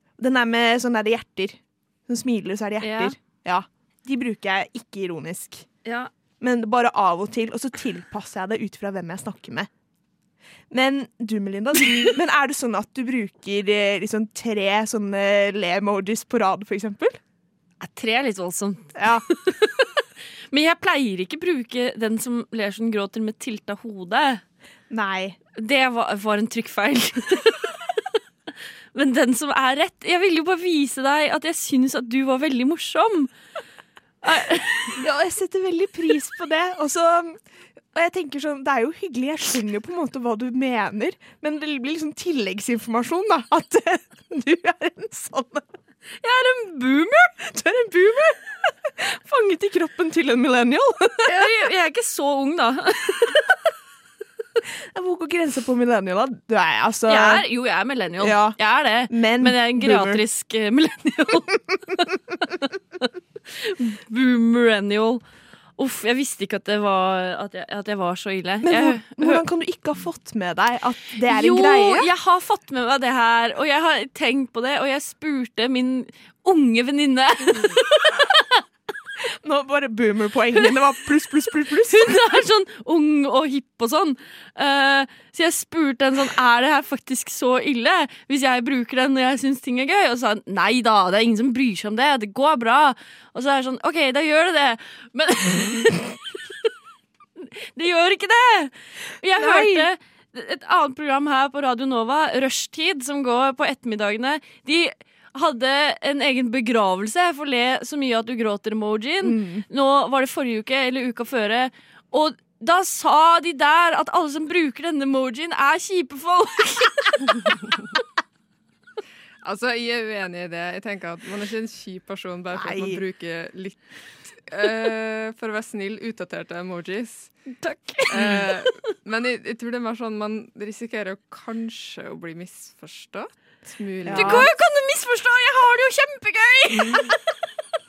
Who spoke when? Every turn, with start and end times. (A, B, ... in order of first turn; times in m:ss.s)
0:00.2-0:05.6 A
0:02.8-0:03.1 B
0:05.8-0:06.1 B
0:06.4-0:09.7 A
0:10.7-0:17.2 A
0:17.8-0:24.4 B
0:19.0-0:19.2 A
0:24.9-0:25.4 A
0:25.6-0:27.9 B
0:28.9-0:33.3 B
0:34.2-0:35.0 B
0:35.0-0:37.4 A
0:37.9-0:45.6 A
0:46.2-0:47.4 B
0:47.4-0:51.4 A
0:51.2-0:53.4 B
0:54.9-0:57.4 A
0:57.1-1:02.2 B
0:58.2-1:00.2 A
1:03.5-1:05.2 B
1:05.8-1:09.4 B
1:08.6-1:12.1 A
1:11.2-1:18.6 B
1:19.4-1:22.2 A
1:21.7-1:36.2 B
1:37.4-1:57.3 B
1:39.4-1:39.9 A
1:49.2-1:49.6 A
1:59.4-2:03.8 C
2:02.5-2:03.0 A
2:04.5-2:07.3 C
2:07.6-2:08.4 B
2:08.1-2:14.5 C
2:08.2-2:08.4 A
2:14.0-2:14.5 A
2:14.1-2:17.1 B